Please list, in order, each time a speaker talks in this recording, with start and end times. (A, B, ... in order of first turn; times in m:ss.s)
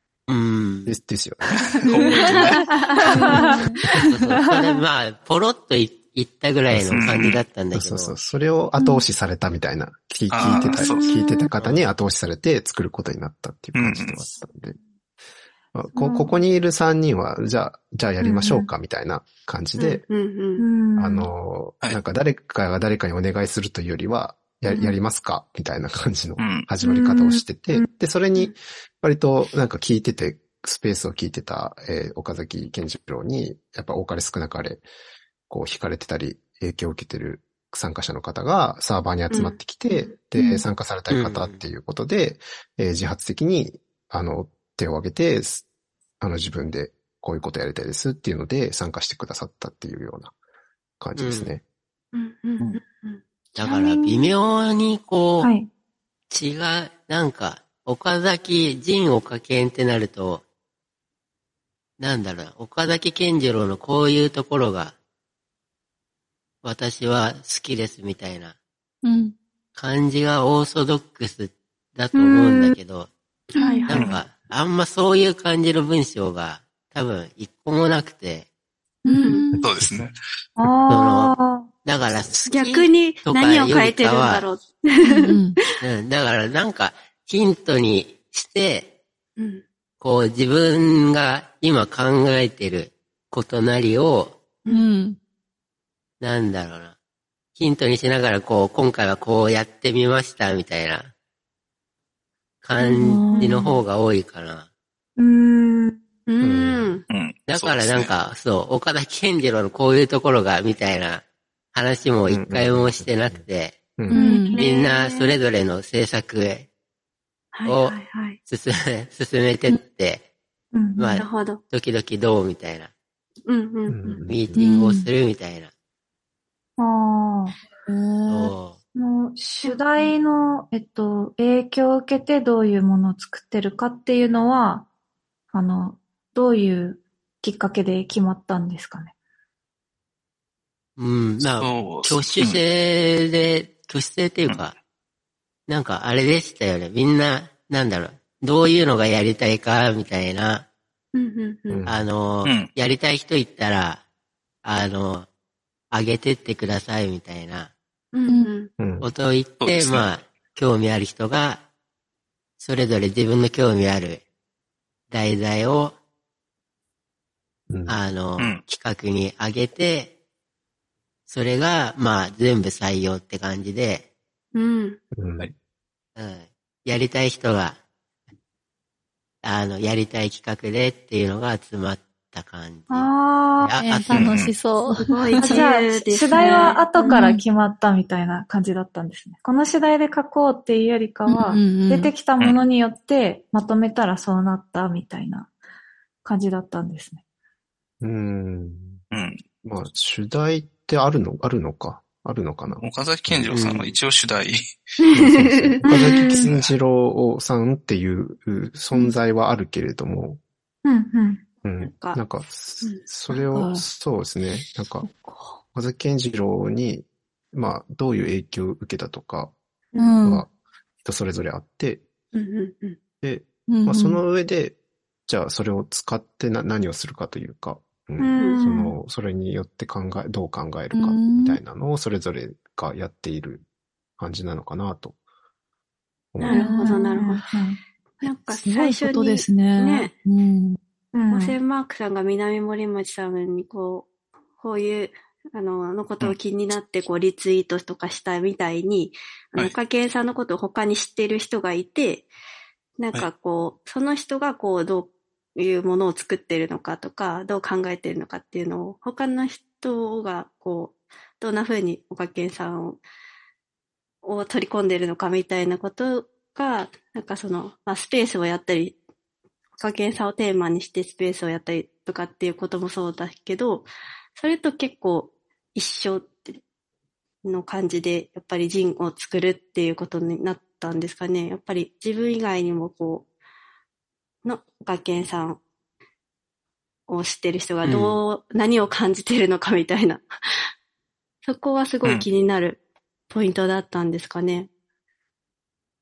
0:00.3-0:01.0 A
0:00.8-0:01.8 B
0:01.7-0:02.7 C
0:02.3-0:03.4 D
0:03.0-0:03.8 E
0:03.1-0:04.0 F
0:04.1-0:08.2 A
0:06.7-0:07.1 B
0:06.9-0:07.4 C
0:07.7-0:14.8 B
0:10.3-0:11.0 C
0:10.5-0:11.5 D
0:11.6-0:11.8 A
0:13.7-0:14.2 C
0:15.7-0:20.0 B
0:16.0-0:16.4 E
0:18.2-0:18.5 D
0:19.8-0:20.6 D
0:20.6-0:21.3 E
0:21.0-0:34.8 B
0:24.7-0:25.0 D
0:26.4-0:26.6 C
0:26.8-0:27.8 E
0:35.5-0:45.6 B
0:39.3-0:40.0 D
0:41.1-0:41.6 A
0:46.2-0:50.3 B
0:51.0-0:51.6 B
0:51.2-0:51.5 A
0:52.1-0:53.2 D
0:53.6-0:55.5 A
0:53.6-0:54.3 E
0:55.4-0:55.7 E
0:56.3-1:00.4 A
1:02.0-1:04.9 A
1:06.6-1:08.5 A
1:09.0-1:09.3 F
1:09.7-1:13.1 A
1:12.1-1:12.7 E
1:13.5-1:13.8 D
1:13.6-1:14.0 E
1:13.9-1:18.5 A
1:13.9-1:14.2 C
1:19.0-1:19.6 F
1:19.1-1:19.4 D
1:19.5-1:19.9 B
1:19.6-1:20.1 C
1:20.6-1:21.7 E
1:20.9-1:21.3 A
1:21.8-1:24.5 A
1:22.5-1:25.4 D
1:25.0-1:25.6 F
1:25.8-1:28.9 A
1:29.4-1:29.6 D
1:30.0-1:34.4 A
1:34.7-1:35.2 F
1:36.2-1:36.9 A
1:37.6-1:41.1 A
1:42.6-1:44.6 A
1:43.0-1:43.6 F
1:43.2-1:43.6 E
1:45.2-1:46.0 E
1:46.3-1:47.0 D
1:46.4-1:46.9 B
1:47.1-1:48.1 C
1:47.5-1:51.2 A
1:51.7-1:53.9 A
1:52.3-1:53.4 B
1:54.1-1:54.6 F
1:54.1-1:55.4 D
1:54.5-1:56.7 A
1:57.5-1:58.4 D
1:57.6-2:00.2 A
2:00.7-2:01.2 E
2:01.0-2:02.9 A
2:01.1-2:01.6 D
2:03.5-2:04.2 D
2:03.9-2:04.6 B
2:04.2-2:05.7 A
2:04.6-2:05.1 F
2:06.8-2:07.6 E
2:07.9-2:08.5 F
2:08.2-2:08.8 A
2:08.9-2:14.9 E
2:15.5-2:19.1 E
2:21.0-2:24.8 A
2:21.4-2:22.6 C
2:25.7-2:30.6 A
2:31.1-2:31.8 D
2:31.7-2:32.0 B
2:31.8-2:34.0 A
2:32.4-2:32.7 C
2:34.6-2:35.3 A
2:35.9-2:37.7 A
2:38.1-2:38.7 D
2:38.8-2:39.1 B
2:39.0-2:41.6 A
2:39.6-2:40.1 C
2:42.6-2:44.2 A
2:45.1-2:45.9 A
2:47.7-2:48.0 B
2:47.9-2:50.1 A
2:48.4-2:48.6 C
2:51.3-2:54.0 A
2:54.5-2:55.0 D
2:55.1-2:55.5 B
2:56.2-2:57.8 A
2:59.4-3:04.4 A
3:02.9-3:03.7 E
3:03.8-3:05.6 F
3:04.1-3:04.5 C
3:05.0-3:07.2 D
3:05.4-3:15.5 E
3:06.3-3:07.4 F
3:11.3-3:12.2 F
3:16.2-3:17.2 E
3:18.0-3:19.0 B
3:19.1-3:19.4 C
3:19.6-3:23.8 B
3:22.8-3:24.6 C
3:23.5-3:23.9 A
3:25.0-3:26.4 D
3:25.1-3:30.4 B
3:25.8-3:26.5 E
3:30.8-3:31.4 E
3:31.6-3:35.0 B
3:31.8-3:32.2 D
3:33.5-3:33.8 F
3:35.0-3:35.6 F
3:35.7-3:39.5 B
3:40.0-3:40.4 F
3:41.0-3:42.0 B
3:42.3-3:43.0 D
3:43.2-3:53.6 B
3:43.7-3:44.2 F
3:48.2-3:48.6 D
3:48.4-3:48.9 E
3:50.9-3:51.6 F
3:54.2-3:55.1 B
3:56.3-3:56.6 B
3:56.4-3:57.4 D
3:56.5-3:57.4 F
3:56.6-3:57.8 E
3:58.2-4:00.1 D
3:58.2-4:00.8 F
4:01.1-4:01.6 E
4:01.3-4:04.1 D
4:04.6-4:12.3 D
4:13.0-4:23.0 D
4:24.2-4:29.0 D
4:29.8-4:36.6 D
4:37.4-4:43.2 D
4:44.4-4:45.6 D
4:47.1-4:50.3 D
4:47.8-4:48.2 A
4:51.4-4:54.7 D